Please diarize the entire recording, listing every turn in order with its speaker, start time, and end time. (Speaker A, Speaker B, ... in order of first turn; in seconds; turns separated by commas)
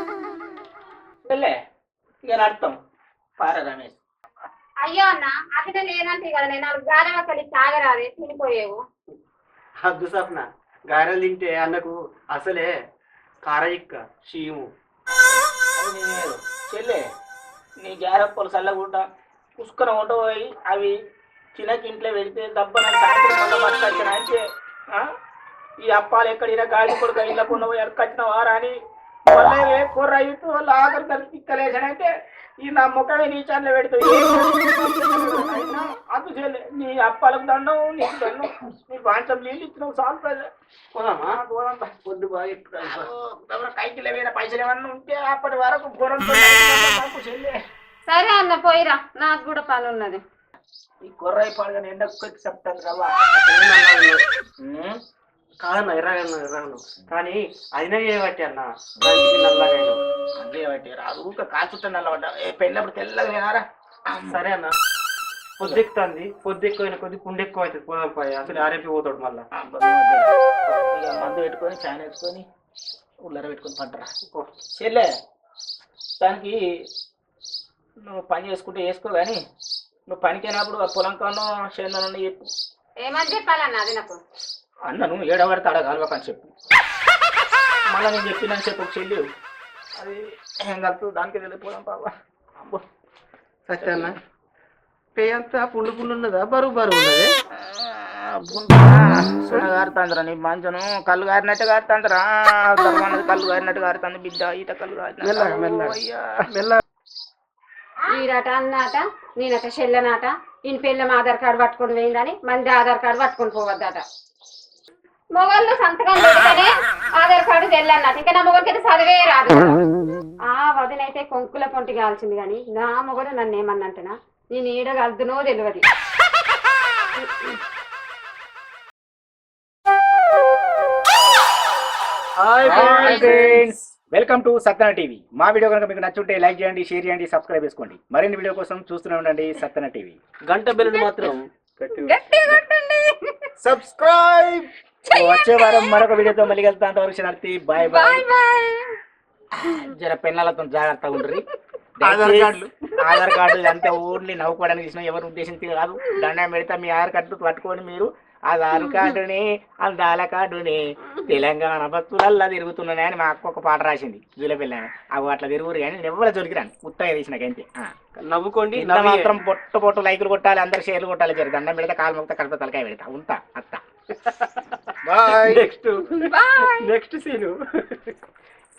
Speaker A: 1.2-1.6, Speaker A: 2.2-2.8, Speaker A: 3.4-4.0, Speaker B: 4.8-8.8, Speaker C: 9.8-12.7, Speaker C: 13.4-14.7, Speaker A: 15.8-17.0, Speaker A: 17.8-19.1, Speaker A: 19.6-20.9, Speaker A: 21.6-25.1, Speaker A: 25.8-32.1, Speaker A: 32.6-40.5, Speaker C: 40.9-41.4, Speaker A: 41.3-42.0, Speaker C: 42.1-43.1, Speaker A: 42.8-47.5, Speaker B: 48.1-50.2, Speaker A: 51.0-53.1, Speaker C: 53.3-54.2, Speaker A: 54.6-55.0, Speaker C: 55.6-60.0, Speaker A: 60.4-64.4, Speaker C: 64.2-64.7, Speaker C: 65.6-69.5, Speaker A: 69.5-72.5, Speaker A: 73.2-74.1, Speaker A: 74.8-75.1, Speaker A: 76.2-76.6, Speaker A: 78.0-79.4, Speaker A: 80.1-82.5, Speaker B: 83.0-84.2, Speaker A: 84.9-86.5, Speaker A: 87.9-89.2, Speaker A: 90.0-92.8, Speaker C: 93.7-94.2, Speaker A: 93.8-94.1, Speaker C: 95.2-97.3, Speaker A: 97.5-106.5, Speaker C: 105.2-106.0, Speaker C: 106.5-106.8, Speaker B: 108.1-114.0, Speaker B: 115.3-119.8, Speaker B: 120.5-125.8, Speaker C: 132.4-133.6, Speaker A: 132.6-140.2, Speaker B: 132.7-133.4, Speaker C: 140.5-142.1, Speaker B: 140.8-141.3, Speaker B: 141.9-143.5, Speaker A: 143.7-148.2, Speaker B: 145.1-146.5, Speaker B: 147.8-148.9, Speaker A: 149.6-151.4, Speaker A: 152.0-167.9, Speaker C: 152.0-152.8, Speaker C: 168.2-169.3, Speaker A: 168.7-173.8, Speaker C: 174.2-178.1, Speaker A: 175.2-175.6, Speaker B: 176.2-176.9